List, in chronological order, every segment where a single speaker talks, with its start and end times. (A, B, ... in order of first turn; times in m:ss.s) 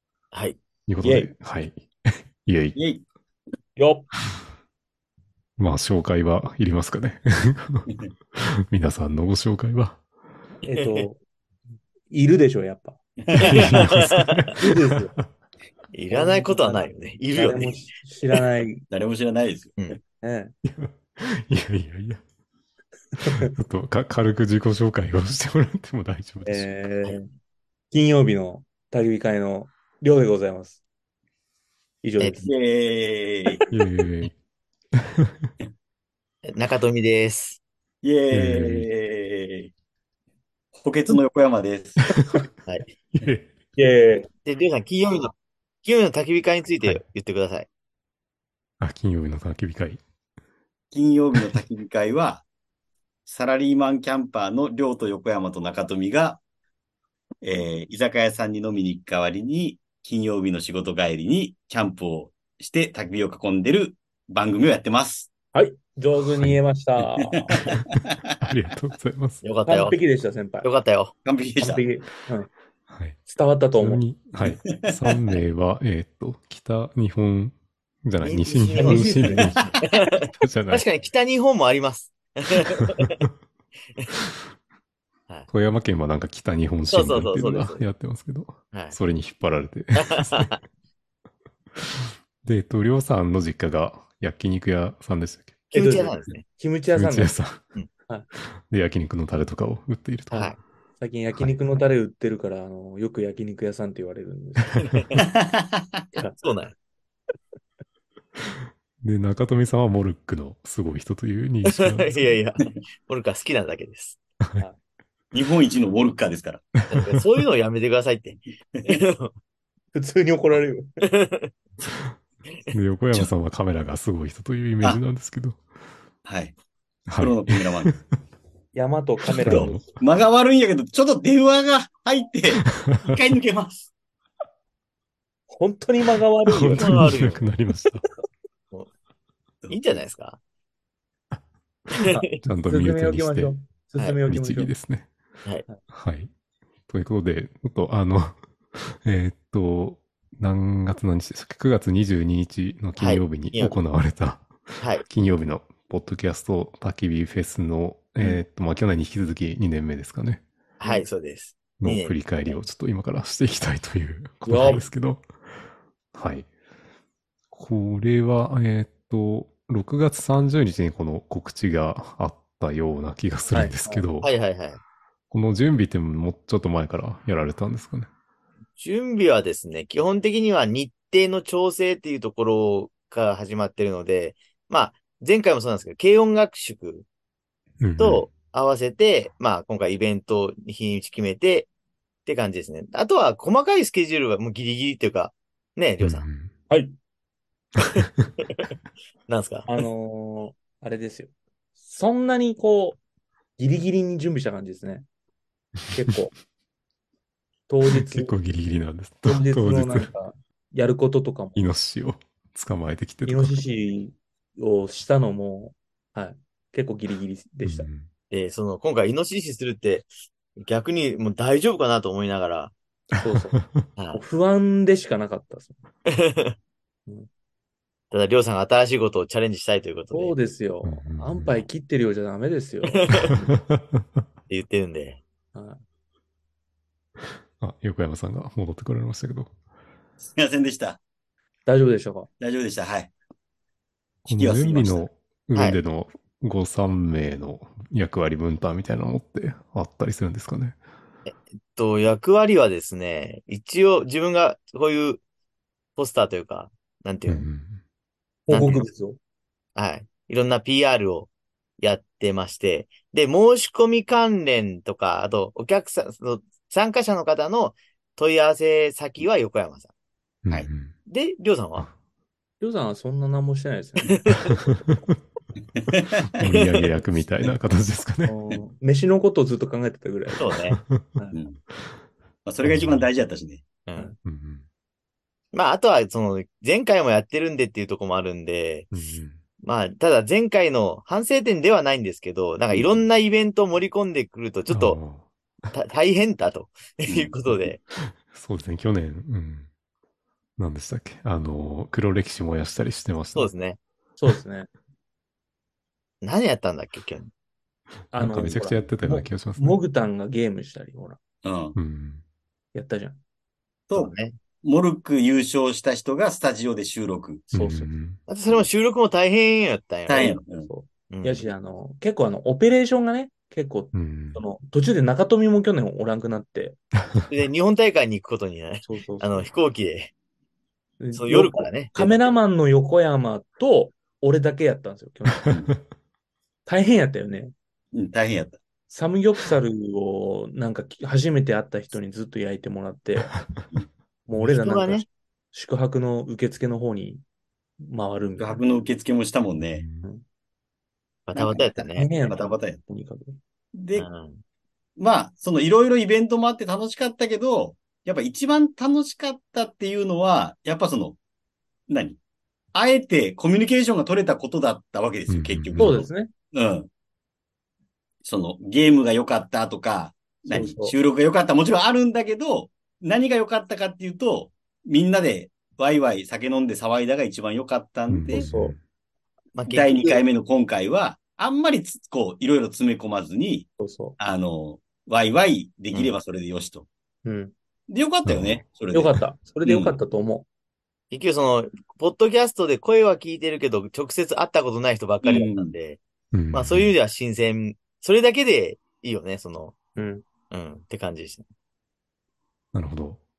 0:00.3-0:00.6 A
0:00.9-0:02.8 B
0:01.0-0:01.3 C
0:02.7-0:03.0 D
0:03.8-0:04.1 C
0:05.6-0:10.0 B
0:10.6-0:11.2 C
0:10.7-0:11.0 A
0:12.1-0:13.0 C
0:13.2-0:13.5 D
0:13.4-0:15.3 B
0:13.5-0:14.4 A
0:14.6-0:15.1 C
0:15.9-0:17.9 A
0:16.1-0:18.8 C
0:18.9-0:19.7 D
0:20.2-0:20.5 C
0:20.6-0:22.2 B
0:23.2-0:26.7 B
0:23.2-0:23.5 C
0:26.4-0:27.3 C
0:27.9-0:30.8 C
0:32.0-0:32.5 C
0:32.4-0:33.6 D
0:33.7-0:34.4 B
0:34.9-0:35.5 B
0:36.4-0:37.6 A
0:38.0-0:39.7 D
0:38.3-0:38.9 B
0:40.7-0:42.0 D
0:42.1-0:42.4 B
0:43.1-0:43.5 B
0:43.8-0:44.3 C
0:44.4-0:45.3 A
0:45.8-0:47.7 A
0:48.8-0:50.0 B
0:50.9-0:52.4 D
0:53.2-0:56.4 D
0:57.4-1:05.3 D
1:05.5-1:07.6 C
1:07.0-1:07.5 D
1:08.4-1:09.4 B
1:09.4-1:10.0 A
1:09.6-1:10.7 C
1:10.6-1:11.1 A
1:11.2-1:11.8 D
1:11.6-1:12.5 C
1:12.9-1:13.2 B
1:13.2-1:14.0 C
1:13.8-1:20.8 B
1:14.4-1:15.1 D
1:18.2-1:23.2 A
1:18.7-1:19.5 C
1:25.5-1:30.6 B
1:26.9-1:27.8 A
1:30.0-1:30.6 A
1:31.9-1:35.6 B
1:35.7-1:36.4 A
1:35.7-1:37.4 C
1:36.9-1:37.6 B
1:38.4-1:40.6 B
1:40.3-1:40.6 A
1:41.0-1:45.2 C
1:45.2-1:46.0 D
1:46.4-1:46.7 A
1:49.0-1:52.3 B
1:51.6-1:54.2 A
1:55.3-1:56.7 D
1:56.9-1:59.3 A
1:58.7-1:59.0 D
1:59.9-2:01.0 C
2:01.0-2:01.5 A
2:02.7-2:05.6 B
2:06.2-2:06.5 D
2:07.1-2:08.0 B
2:07.2-2:07.9 D
2:08.7-2:09.9 C
2:09.3-2:09.8 B
2:09.4-2:13.9 D
2:12.8-2:13.1 B
2:15.5-2:17.1 C
2:16.5-2:18.0 B
2:16.8-2:17.5 A
2:19.7-2:20.4 A
2:22.1-2:24.7 C
2:22.4-2:23.5 B
2:24.2-2:25.1 B
2:25.9-2:26.3 B
2:26.9-2:40.4 B
2:33.0-2:33.8 A
2:34.8-2:35.0 A
2:40.8-2:42.6 A
2:41.8-2:45.2 B
2:44.4-2:44.8 C
2:46.1-2:46.5 B
2:47.5-2:54.3 B
2:53.5-2:54.0 C
2:54.2-2:54.8 A
2:55.3-2:58.1 B
2:58.8-3:07.0 A
3:07.8-3:08.3 B
3:08.0-3:11.7 A
3:12.2-3:16.3 A
3:16.0-3:16.5 B
3:16.7-3:17.0 C
3:19.3-3:19.7 A
3:19.7-3:23.0 C
3:23.6-3:25.1 C
3:25.9-3:26.3 C
3:27.7-3:28.3 C
3:27.8-3:30.1 B
3:29.2-3:31.6 C
3:31.5-3:33.6 B
3:33.2-3:37.9 C
3:37.6-3:38.1 B
3:38.3-3:42.7 A
3:43.1-3:43.6 C
3:43.5-3:43.8 B
3:44.0-3:44.2 A
3:44.1-3:45.8 C
3:46.1-3:46.6 A
3:48.1-3:50.3 A
3:50.1-3:53.5 C
3:50.8-3:51.5 B
3:52.8-3:53.4 A
3:53.5-3:53.8 B
3:54.5-3:55.2 A
3:55.5-3:55.8 C
3:57.6-3:59.5 B
4:00.2-4:01.0 D
4:01.6-4:02.3 C
4:02.4-4:03.1 D
4:04.2-4:10.8 B
4:04.3-4:05.0 D
4:11.3-4:15.2 A
4:16.0-4:17.5 A
4:17.3-4:17.8 B
4:18.5-4:19.2 C
4:18.5-4:18.9 A
4:19.8-4:29.9 A
4:30.4-4:30.9 B
4:31.1-4:31.9 A
4:32.6-4:34.9 C
4:35.9-4:36.3 D
4:36.4-4:38.4 B
4:38.2-4:40.5 C
4:40.4-4:40.8 A
4:40.7-4:41.1 B
4:42.4-4:43.7 D
4:42.6-4:43.1 B
4:43.9-4:44.1 A
4:44.2-4:44.6 B
4:45.5-4:48.9 A
4:48.9-4:49.4 B
4:49.6-4:55.0 A
4:52.7-4:53.0 D
4:54.7-4:55.3 B
4:55.7-4:57.8 A
4:57.1-4:57.3 D
4:58.0-4:59.7 B
5:00.6-5:03.5 B
5:03.3-5:03.8 A
5:04.2-5:04.7 C
5:06.2-5:07.3 A
5:08.1-5:09.8 B
5:08.1-5:11.2 C
5:11.4-5:11.8 D
5:11.7-5:12.2 B
5:12.7-5:13.2 C
5:13.9-5:17.5 D
5:13.9-5:14.4 A
5:17.5-5:17.9 C
5:17.5-5:18.2 B
5:18.3-5:20.4 A
5:20.1-5:20.7 D
5:20.6-5:26.8 C
5:21.1-5:21.5 A
5:23.9-5:24.4 B
5:27.3-5:30.1 A
5:28.9-5:29.5 C
5:31.0-5:35.5 C
5:31.1-5:32.4 A
5:36.6-5:37.5 C
5:37.9-5:38.6 D
5:38.9-5:43.4 C
5:44.3-5:47.2 C
5:44.4-5:45.1 A
5:47.8-5:48.6 C
5:48.4-5:49.8 D
5:49.8-5:50.1 B
5:51.3-5:52.3 A
5:51.4-5:53.4 C
5:52.3-5:52.8 D
5:53.7-5:54.1 D
5:54.0-5:54.4 A
5:55.0-6:01.2 D
6:01.9-6:02.2 D
6:02.7-6:06.9 D
6:05.3-6:06.0 B
6:05.8-6:06.3 C
6:08.2-6:18.5 D
6:10.5-6:10.9 C
6:18.1-6:18.8 B
6:18.3-6:18.7 C
6:19.5-6:20.2 A
6:19.7-6:23.7 D
6:23.8-6:24.2 C
6:24.2-6:26.8 D
6:27.2-6:27.5 C
6:27.9-6:30.0 D
6:28.2-6:28.6 B
6:28.9-6:30.4 C
6:31.1-6:36.0 A
6:35.2-6:35.7 D
6:36.3-6:36.9 B
6:36.5-6:39.7 A
6:40.0-6:40.2 C
6:40.5-6:41.4 A
6:42.7-6:43.2 B